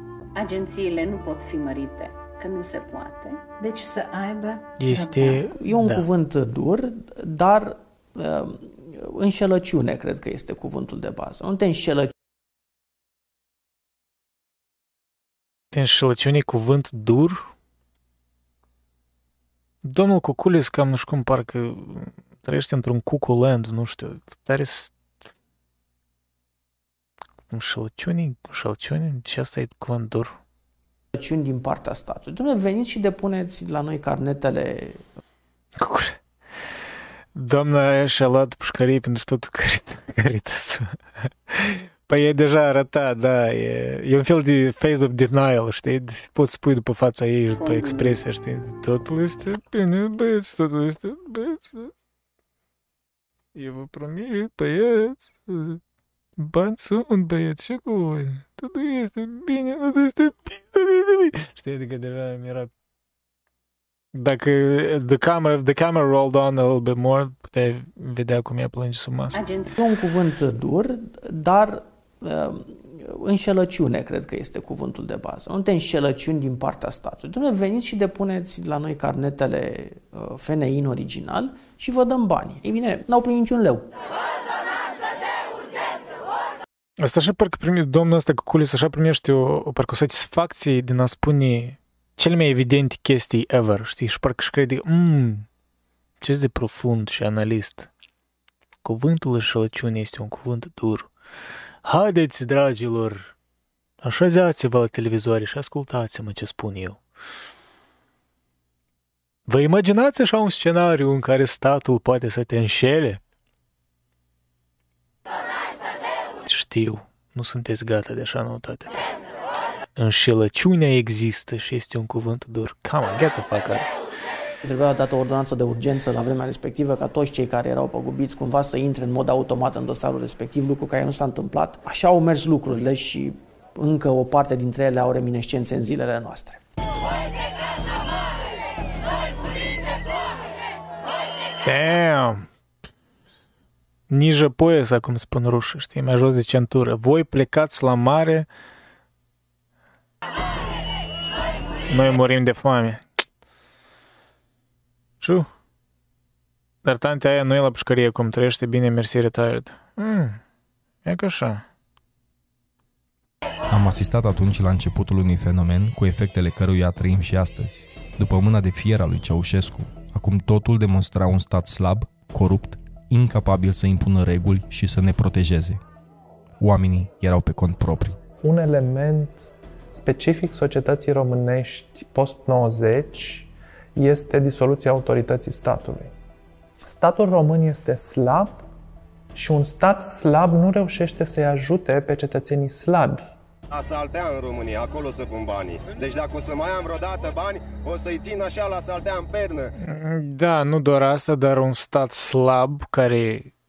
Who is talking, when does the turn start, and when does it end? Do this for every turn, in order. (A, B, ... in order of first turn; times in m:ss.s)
0:00.4-0:05.5 A
0:04.8-0:06.0 B
0:05.5-0:12.1 C
0:15.7-0:17.5 B
0:19.8-0:24.9 B
0:27.5-0:30.4 B
0:31.1-0:35.0 C
0:35.8-0:36.2 B
0:37.3-0:40.9 B
0:41.5-0:51.9 B
0:47.6-0:48.2 A
0:53.5-0:55.8 B
0:56.4-1:02.7 B
1:04.1-1:09.4 B
1:09.3-1:09.7 A
1:09.7-1:23.9 C
1:27.0-1:35.5 B
1:36.2-1:37.9 B
1:38.8-1:41.1 B
1:41.8-1:43.3 B
1:44.0-1:47.0 B
1:49.5-1:53.2 B
1:56.4-1:59.0 B
2:00.0-2:03.8 B
2:04.6-2:16.6 C
2:21.6-2:22.4 B
2:24.1-2:28.5 B
2:31.9-2:33.0 B
2:35.2-2:35.4 B
2:36.8-2:40.4 B
2:41.0-2:41.6 B
2:43.7-2:55.8 D
2:56.6-2:58.2 D
2:58.4-3:06.1 E
3:06.8-3:08.6 E
3:09.3-3:13.3 E
3:13.7-3:19.7 F
3:19.8-3:23.5 B